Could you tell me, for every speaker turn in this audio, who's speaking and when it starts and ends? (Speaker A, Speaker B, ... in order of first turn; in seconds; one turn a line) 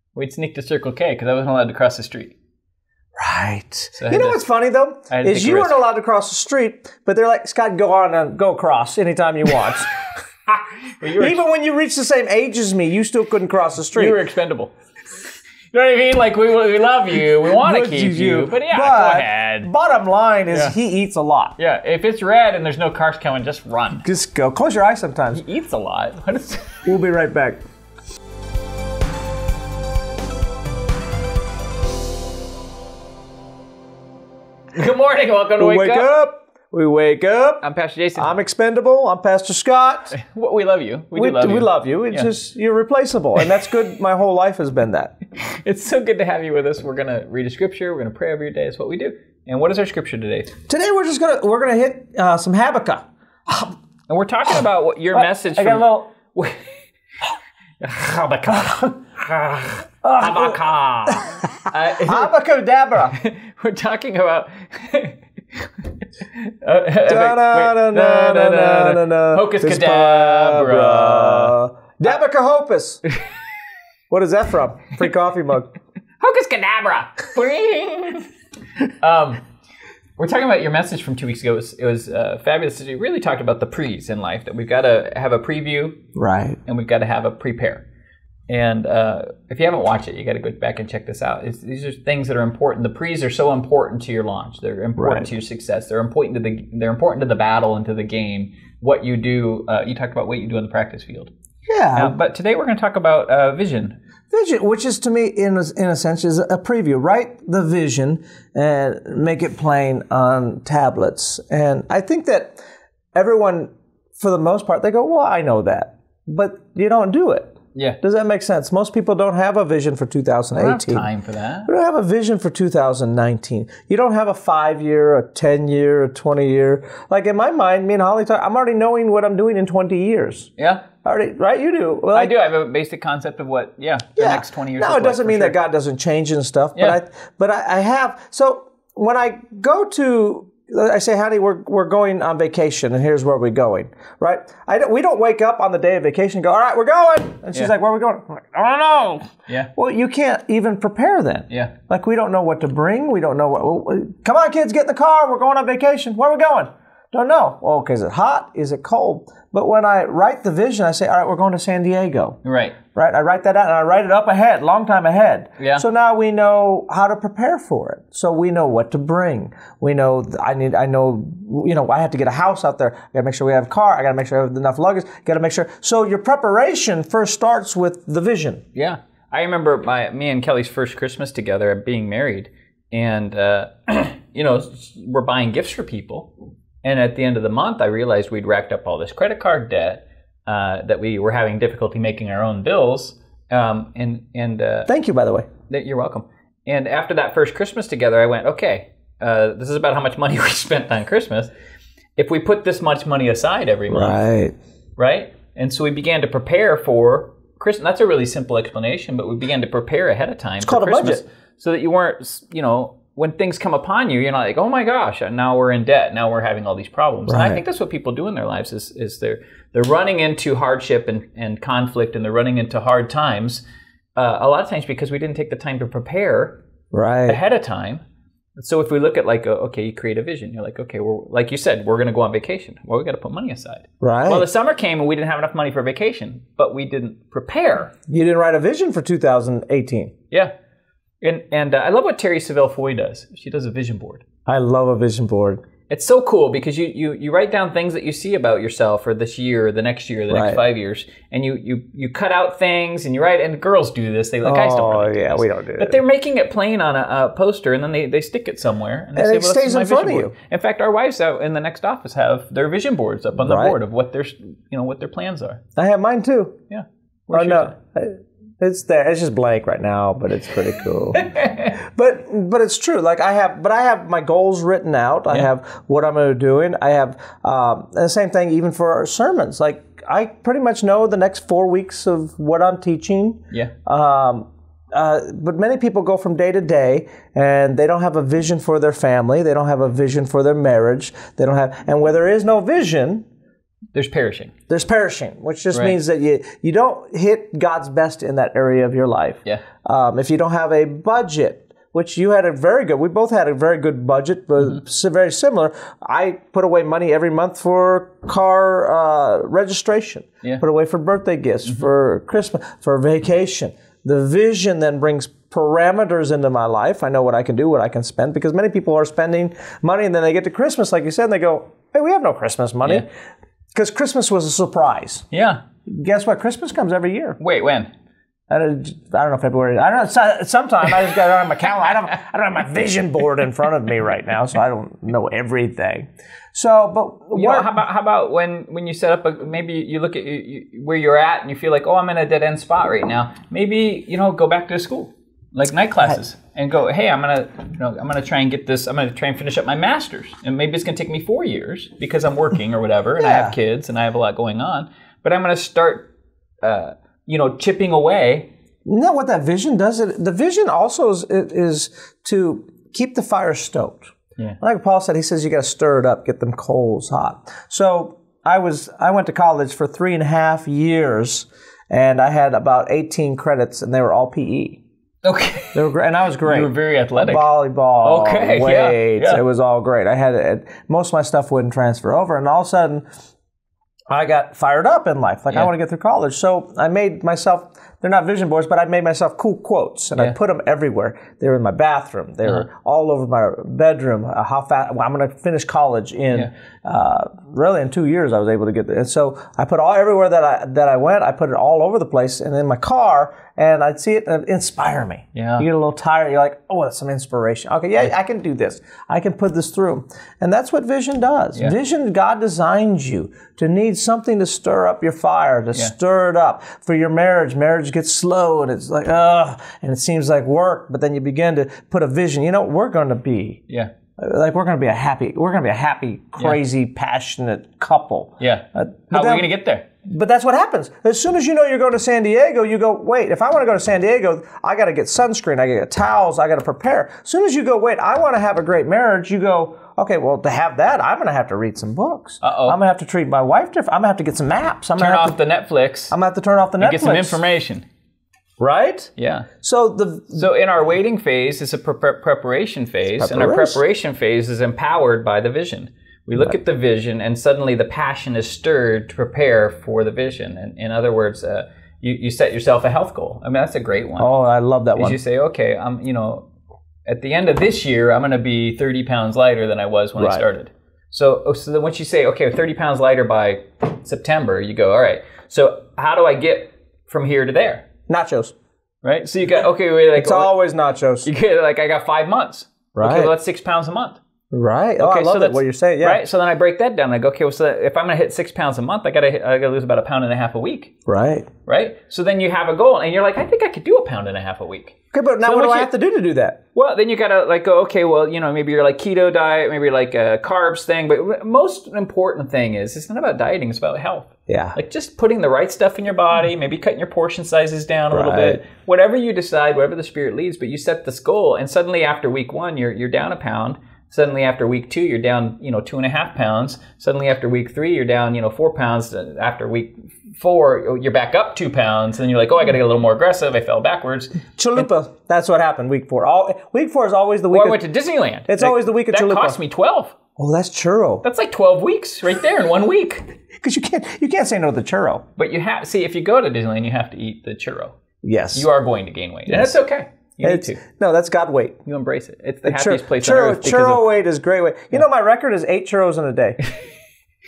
Speaker A: 0.1-2.4
Speaker B: 3.2-10.1
Speaker A: 4.0-4.4
Speaker A: 5.1-5.8
Speaker A: 11.0-11.4
Speaker B: 11.2-14.2
Speaker A: 13.9-14.7
Speaker A: 15.7-19.7
Speaker B: 17.6-21.6
Speaker A: 20.5-20.8
Speaker A: 21.6-24.1
Speaker B: 24.0-25.4
Speaker A: 25.3-26.9
Speaker B: 26.9-27.6
Speaker A: 34.8-36.1
Speaker B: 35.6-40.2
Speaker A: 37.6-38.4
Speaker A: 40.1-42.3
Speaker B: 41.1-45.2
Speaker A: 45.4-50.5
Speaker B: 50.7-53.8
Speaker A: 54.1-56.7
Speaker B: 55.1-56.1
Speaker A: 57.8-62.3
Speaker B: 60.0-60.6
Speaker B: 61.1-63.2
Speaker A: 63.1-71.6
Speaker B: 67.1-73.0
Speaker B: 74.1-75.8
Speaker A: 76.2-78.3
Speaker A: 79.0-79.4
Speaker A: 80.2-86.0
Speaker B: 86.2-86.6
Speaker A: 86.7-87.9
Speaker A: 88.5-101.3
Speaker B: 95.0-95.3
Speaker B: 101.7-102.2
Speaker A: 102.0-104.0
Speaker B: 104.3-112.6
Speaker B: 113.1-121.1
Speaker A: 117.8-118.0
Speaker A: 120.5-121.7
Speaker B: 121.7-130.5
Speaker A: 130.6-130.9
Speaker B: 131.0-132.3
Speaker A: 132.1-135.6
Speaker B: 134.2-162.4
Speaker A: 162.4-162.8
Speaker B: 162.9-178.6
Speaker A: 165.6-165.8
Speaker A: 178.7-186.3
Speaker A: 186.8-194.9
Speaker B: 194.9-195.5
Speaker A: 195.7-201.5
Speaker A: 202.2-204.2
Speaker B: 203.9-204.6
Speaker A: 205.0-223.6
Speaker B: 210.6-211.2
Speaker B: 217.3-217.6
Speaker A: 224.2-226.6
Speaker B: 226.9-227.4
Speaker A: 227.3-228.0
Speaker A: 228.6-237.9
Speaker B: 234.0-234.5
Speaker B: 238.1-240.1
Speaker A: 241.2-244.2
Speaker B: 244.5-245.6
Speaker A: 245.9-265.6
Speaker B: 250.3-250.6
Speaker B: 254.4-256.0
Speaker B: 259.1-260.3
Speaker B: 263.4-263.8
Speaker B: 265.8-266.6
Speaker A: 266.7-267.7
Speaker B: 267.3-293.3
Speaker A: 271.2-271.7
Speaker A: 293.9-294.5
Speaker B: 294.7-323.1
Speaker A: 295.7-296.0
Speaker B: 323.7-325.3
Speaker A: 325.3-325.6
Speaker B: 325.9-327.4
Speaker A: 327.4-327.9
Speaker B: 328.5-337.8
Speaker A: 337.3-356.1
Speaker B: 353.2-353.6
Speaker A: 356.6-358.5
Speaker B: 358.9-374.8
Speaker A: 375.2-375.9
Speaker B: 375.7-383.0
Speaker A: 376.4-377.5
Speaker A: 378.0-379.4
Speaker B: 384.1-423.6
Speaker A: 405.4-405.7
Speaker B: 424.2-429.5
Speaker A: 428.4-429.9
Speaker B: 430.1-445.4
Speaker A: 442.4-442.8
Speaker A: 445.0-446.1
Speaker B: 446.1-447.4
Speaker A: 446.8-447.9
Speaker B: 448.6-450.5
Speaker A: 449.2-449.5
Speaker A: 450.3-464.3
Speaker B: 453.2-453.8
Speaker B: 464.2-465.2
Speaker A: 465.0-466.5
Speaker A: 467.1-477.9
Speaker B: 470.2-470.4
Speaker B: 478.1-478.5
Speaker A: 479.0-480.6
Speaker B: 480.2-481.3
Speaker A: 481.2-484.2
Speaker B: 482.9-483.3
Speaker B: 484.5-486.2
Speaker A: 485.0-490.9
Speaker B: 491.1-491.5
Speaker A: 491.7-495.9
Speaker B: 495.1-496.6
Speaker A: 496.8-524.4
Speaker B: 504.5-504.8
Speaker B: 508.1-508.6
Speaker B: 524.6-527.8
Speaker A: 527.5-530.2
Speaker B: 528.5-529.6
Speaker B: 530.4-531.2
Speaker A: 531.2-533.3
Speaker B: 533.5-535.2
Speaker A: 535.4-538.0
Speaker B: 538.2-538.7
Speaker A: 538.5-540.8
Speaker B: 539.5-539.8
Speaker B: 540.4-541.8
Speaker A: 541.9-544.1
Speaker B: 542.6-546.6